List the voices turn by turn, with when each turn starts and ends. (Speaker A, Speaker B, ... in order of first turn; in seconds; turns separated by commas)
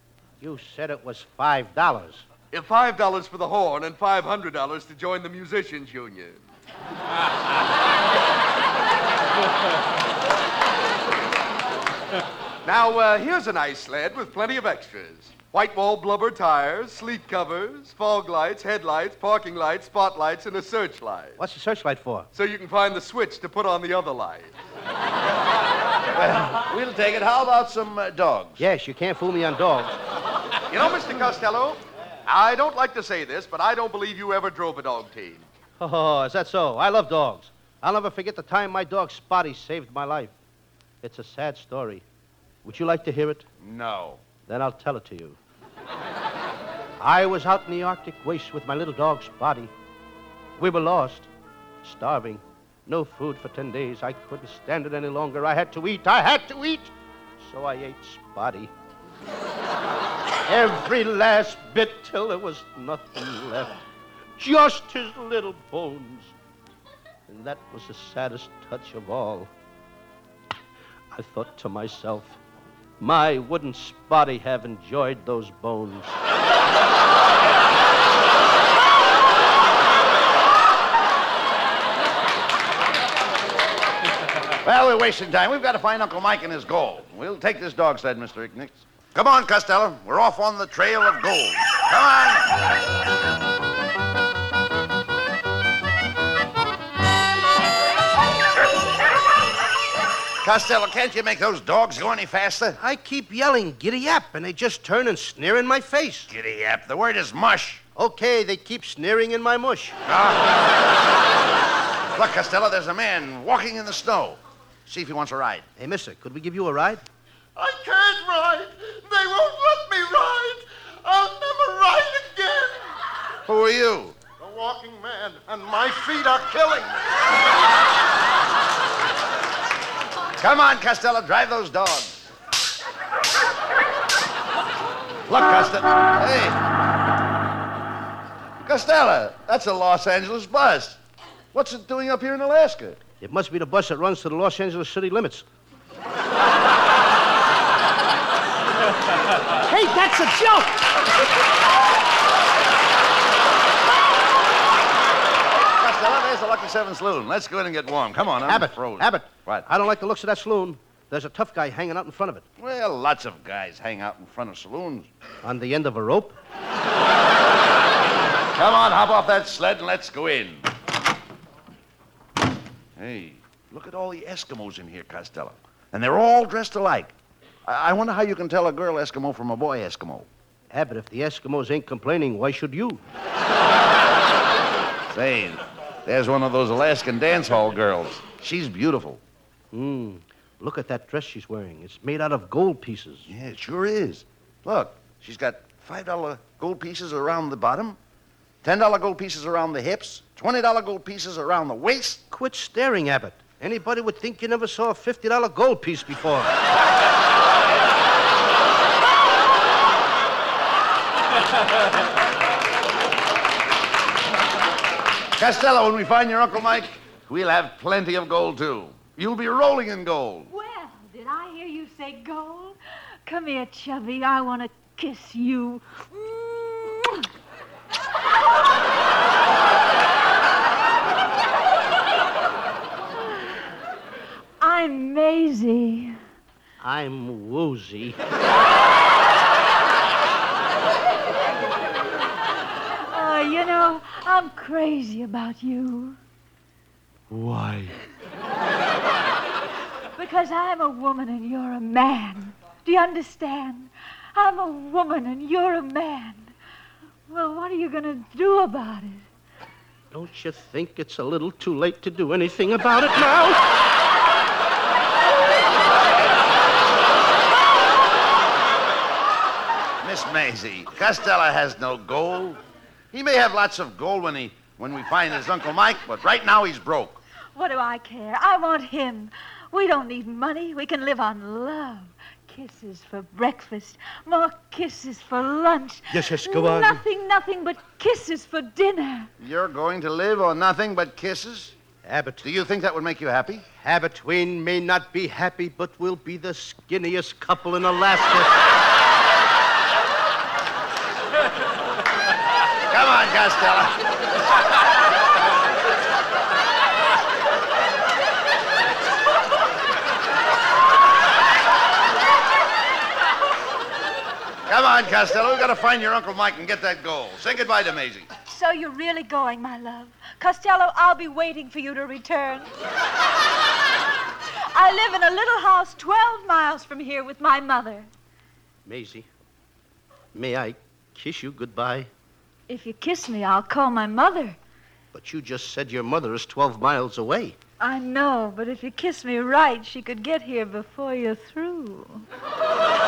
Speaker A: 0.4-2.2, Speaker B: 2.5-6.4, Speaker B: 12.6-21.4, Speaker A: 21.4-22.3, Speaker B: 22.3-24.5, Speaker C: 26.1-28.6, Speaker A: 28.6-30.0, Speaker B: 30.7-35.5, Speaker A: 35.8-40.3, Speaker A: 41.0-42.0, Speaker A: 42.6-43.5, Speaker C: 43.6-44.2, Speaker A: 44.5-45.4, Speaker A: 47.0-49.7, Speaker A: 50.6-51.3, Speaker A: 51.8-58.7, Speaker A: 60.5-63.8, Speaker A: 64.4-66.3, Speaker A: 67.3-69.5, Speaker A: 71.1-72.4, Speaker A: 73.0-76.2, Speaker C: 84.6-92.6, Speaker C: 100.4-102.8, Speaker A: 102.8-106.3, Speaker C: 106.3-107.8, Speaker A: 108.0-110.0, Speaker C: 110.1-110.5, Speaker C: 112.2-115.6, Speaker A: 115.8-117.0, Speaker D: 117.6-123.0, Speaker C: 123.5-124.2, Speaker D: 124.4-127.0, Speaker C: 130.4-132.3, Speaker C: 135.3-136.6, Speaker C: 138.6-141.0, Speaker C: 141.5-143.0, Speaker A: 143.2-145.4, Speaker A: 149.6-150.9, Speaker C: 155.5-159.6, Speaker A: 158.4-162.5, Speaker C: 162.6-165.1, Speaker A: 165.4-166.4, Speaker C: 168.6-170.7, Speaker C: 173.0-177.1, Speaker C: 177.7-180.3, Speaker A: 180.7-183.0, Speaker C: 185.1-189.2, Speaker A: 189.7-193.3, Speaker C: 193.3-198.0, Speaker C: 198.6-202.2, Speaker A: 202.3-206.5, Speaker C: 215.4-220.5, Speaker E: 220.5-227.3, Speaker E: 234.6-236.2, Speaker A: 236.8-238.2, Speaker E: 242.7-246.2, Speaker A: 247.3-247.9, Speaker E: 250.2-256.5, Speaker E: 257.3-259.2, Speaker A: 260.1-263.6, Speaker C: 270.0-272.6, Speaker C: 273.1-277.2, Speaker E: 277.5-289.3, Speaker A: 286.1-287.1, Speaker C: 289.4-291.7, Speaker A: 292.0-292.4, Speaker C: 292.4-293.6, Speaker A: 293.8-298.6, Speaker C: 302.9-304.0, Speaker C: 314.7-318.3, Speaker E: 318.5-322.7, Speaker E: 324.7-328.1, Speaker A: 328.9-329.3, Speaker A: 330.3-332.1, Speaker E: 332.7-334.6, Speaker A: 335.1-337.6, Speaker E: 337.8-342.3